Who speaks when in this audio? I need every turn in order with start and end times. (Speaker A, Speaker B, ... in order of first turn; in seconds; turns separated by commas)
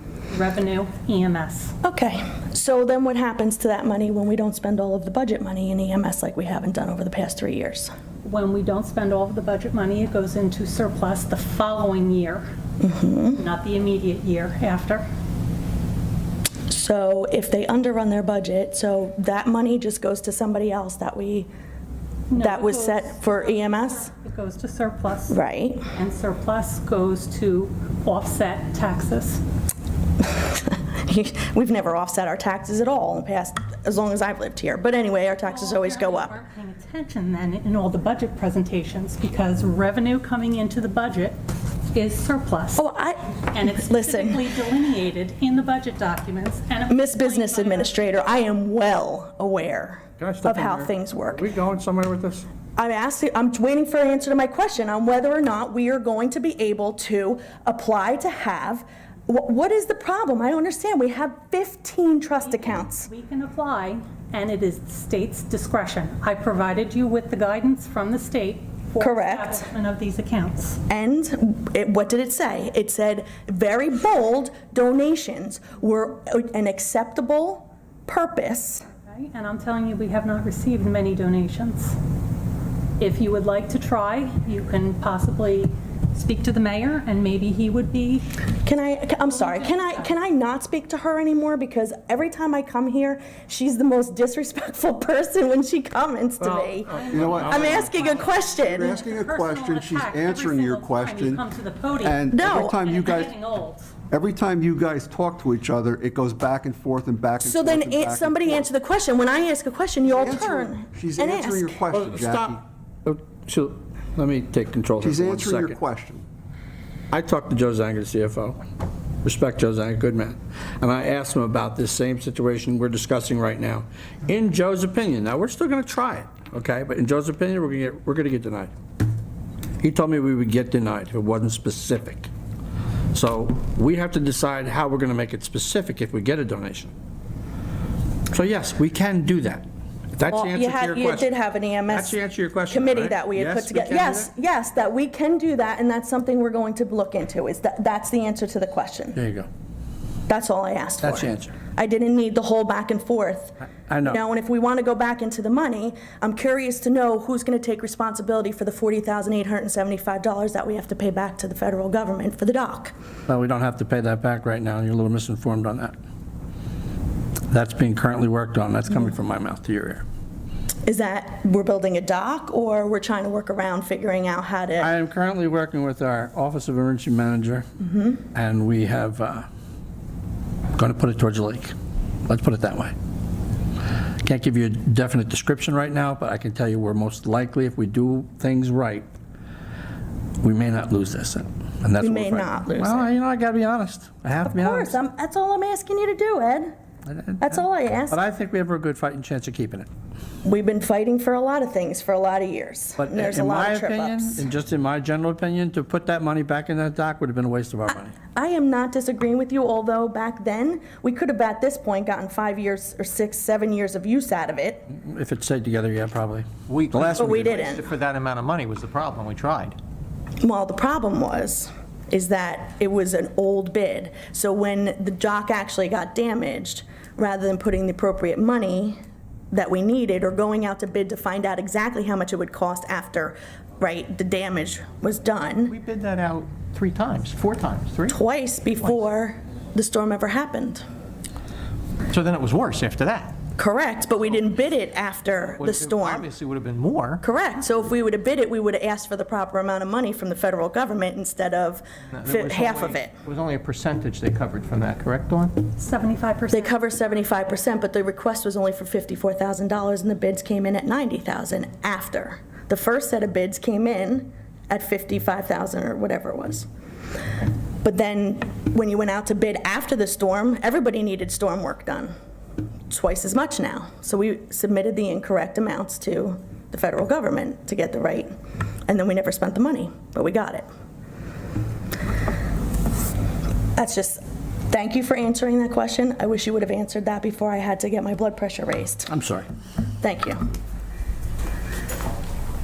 Speaker A: 0.3-1.7, Speaker B: 1.8-7.9, Speaker A: 8.2-12.4, Speaker B: 12.8-13.4, Speaker A: 13.4-15.0, Speaker B: 16.7-21.5, Speaker A: 22.3-25.4, Speaker B: 22.4-24.1, Speaker B: 25.3-25.9, Speaker A: 25.9-29.4, Speaker B: 30.2-36.3, Speaker A: 35.4-41.4, Speaker A: 41.9-42.8, Speaker B: 42.8-44.5, Speaker A: 43.5-48.0, Speaker B: 46.9-51.4, Speaker C: 50.2-52.4, Speaker B: 52.8-63.1, Speaker A: 62.5-70.8, Speaker B: 69.0-69.7, Speaker B: 70.9-78.9, Speaker A: 79.0-81.9, Speaker A: 83.0-88.2, Speaker B: 88.6-99.0, Speaker A: 89.3-90.1, Speaker C: 96.4-97.9, Speaker A: 96.9-103.9, Speaker D: 97.1-101.4, Speaker D: 101.9-103.3, Speaker B: 102.3-102.9, Speaker D: 104.1-108.7, Speaker B: 107.4-111.8, Speaker D: 110.1-112.6, Speaker C: 111.9-115.8, Speaker D: 115.0-116.2, Speaker C: 117.1-118.6, Speaker C: 119.2-128.7, Speaker C: 129.8-132.3, Speaker C: 133.1-136.9, Speaker C: 138.3-141.3, Speaker B: 140.3-149.2, Speaker C: 141.9-144.3, Speaker C: 149.1-149.5, Speaker B: 150.3-162.9, Speaker C: 151.0-151.5, Speaker C: 153.9-154.2, Speaker C: 163.3-165.9, Speaker C: 167.5-170.0, Speaker B: 170.8-174.9, Speaker C: 174.8-177.7, Speaker C: 178.3-179.4, Speaker C: 180.8-181.7, Speaker C: 182.3-182.9, Speaker C: 184.2-189.1, Speaker C: 190.4-195.0, Speaker B: 192.0-193.0, Speaker B: 194.5-196.7, Speaker C: 197.1-199.9, Speaker B: 197.4-198.2, Speaker B: 200.4-204.4, Speaker C: 203.0-208.1, Speaker B: 208.3-214.9, Speaker C: 214.9-217.6, Speaker E: 216.8-219.8, Speaker B: 217.1-217.8, Speaker B: 220.4-229.0, Speaker B: 229.5-235.8, Speaker E: 235.7-238.2, Speaker B: 238.1-240.8, Speaker E: 242.1-243.3, Speaker B: 243.6-246.3, Speaker E: 245.6-247.2, Speaker B: 247.2-253.1, Speaker E: 252.2-255.5, Speaker A: 255.8-256.7, Speaker B: 256.5-266.6, Speaker B: 267.8-272.1, Speaker B: 272.9-278.3, Speaker B: 278.9-280.7, Speaker B: 283.8-289.1, Speaker C: 289.1-289.4, Speaker B: 290.0-290.4